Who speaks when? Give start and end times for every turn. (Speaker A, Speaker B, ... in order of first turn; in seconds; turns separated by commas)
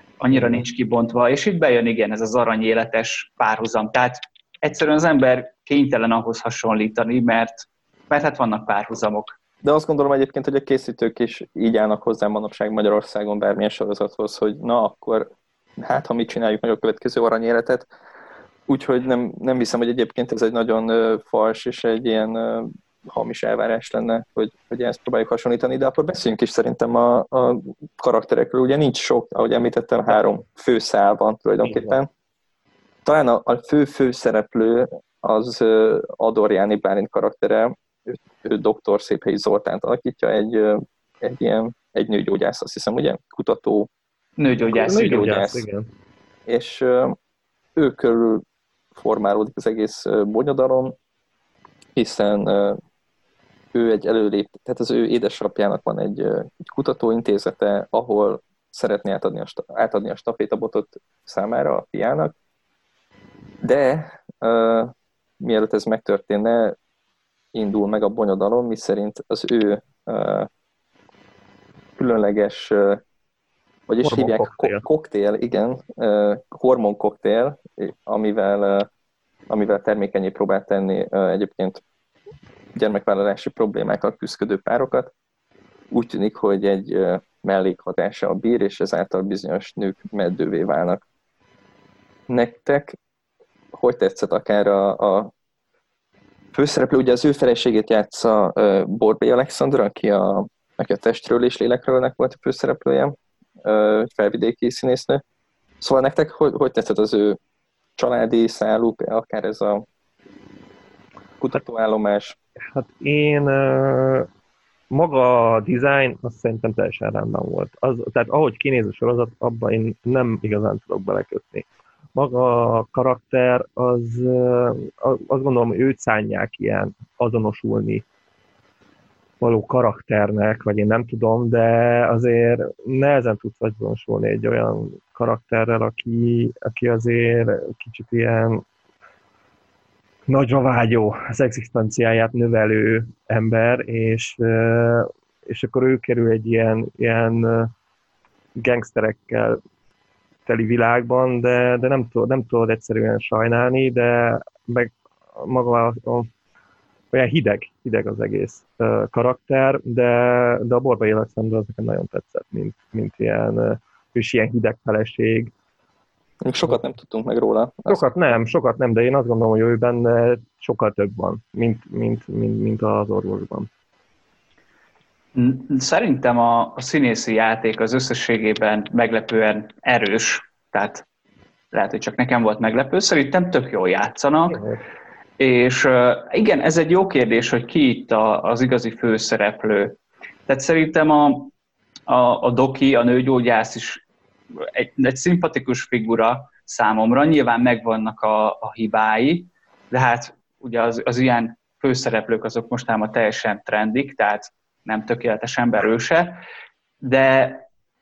Speaker A: 0.2-9.3, Speaker B: 0.3-0.6, Speaker C: 9.6-17.9, Speaker C: 18.7-32.1, Speaker B: 31.6-32.0, Speaker C: 33.0-43.9, Speaker A: 44.4-45.3, Speaker B: 44.7-45.9, Speaker C: 44.8-45.6, Speaker C: 46.5-47.1, Speaker C: 47.8-48.4, Speaker C: 48.9-50.9, Speaker C: 52.0-52.8, Speaker C: 53.7-62.3, Speaker C: 63.6-66.8, Speaker C: 67.5-70.5, Speaker C: 72.0-73.0, Speaker C: 73.9-78.9, Speaker B: 74.0-74.8, Speaker C: 79.5-81.8, Speaker C: 82.7-85.1, Speaker C: 85.9-91.0, Speaker C: 92.3-93.0, Speaker C: 93.7-95.3, Speaker C: 96.5-105.2, Speaker C: 105.8-107.4, Speaker C: 108.0-109.8, Speaker C: 111.4-112.3, Speaker B: 112.7-114.3, Speaker B: 114.9-128.0, Speaker B: 129.4-138.6, Speaker B: 140.3-147.7, Speaker B: 148.6-149.6, Speaker B: 150.4-156.3, Speaker B: 157.1-165.5, Speaker C: 166.4-168.1, Speaker B: 167.9-173.7, Speaker A: 175.3-181.1, Speaker A: 181.7-184.6, Speaker A: 185.4-191.5, Speaker A: 192.1-194.0, Speaker A: 194.6-206.4, Speaker A: 207.0-207.7